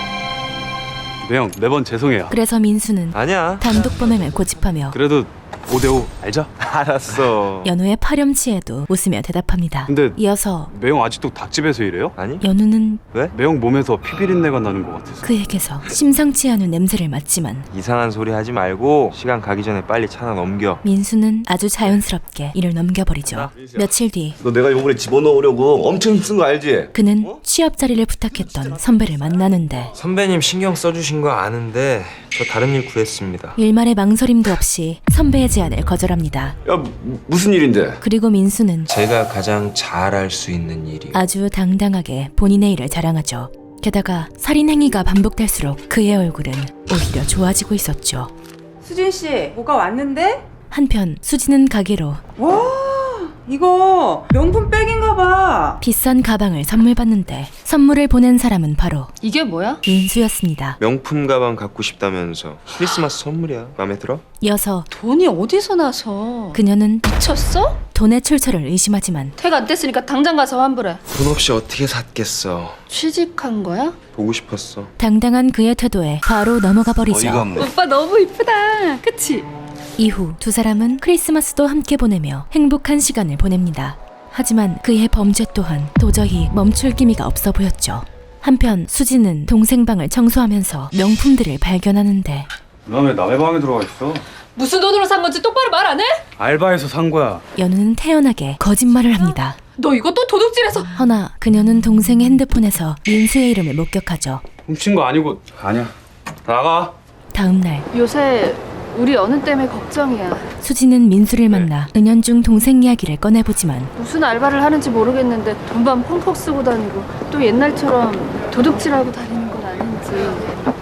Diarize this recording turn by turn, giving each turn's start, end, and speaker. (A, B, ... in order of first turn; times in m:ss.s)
0:01.2-0:02.4 A
0:02.3-0:05.0 B
0:03.1-0:03.7 C
0:04.9-0:06.5 A
0:06.6-0:07.7 C
0:07.6-0:10.7 B
0:09.9-0:12.2 A
0:12.2-0:12.5 C
0:12.4-0:13.0 B
0:13.3-0:15.3 A
0:15.2-0:17.7 B
0:17.7-0:20.8 C
0:20.8-0:24.4 B
0:24.4-0:26.9 D
0:26.9-0:29.9 B
0:30.0-0:33.6 C
0:33.6-0:36.6 B
0:36.6-0:38.0 D
0:38.0-0:38.9 B
0:38.9-0:41.2 C
0:41.1-0:48.3 B
0:48.8-0:50.4 E
0:50.7-0:52.2 B
0:52.4-0:55.8 E
0:55.8-0:59.1 B
0:59.2-0:59.8 F
0:59.8-1:00.8 B
1:00.8-1:04.2 C
1:04.4-1:04.9 B
1:04.9-1:07.8 F
1:06.5-1:07.1 B
1:07.9-1:09.3 B
1:09.4-1:11.0 F
1:11.1-1:12.8 C
1:12.9-1:14.0 F
1:14.1-1:14.9 C
1:15.0-1:17.5 B
1:17.1-1:17.7 D
1:17.5-1:19.5 F
1:20.0-1:32.5 B
1:32.8-1:34.2 A
1:34.6-1:36.2 F
1:36.4-1:37.4 A
1:37.6-1:39.6 B
1:39.8-1:40.9 F
1:41.0-1:44.4 B
1:44.6-1:45.9 A
1:46.4-1:46.9 A
1:47.3-1:47.9 B
1:47.9-1:50.5 F
1:50.6-1:53.9 B
1:54.0-2:00.5 F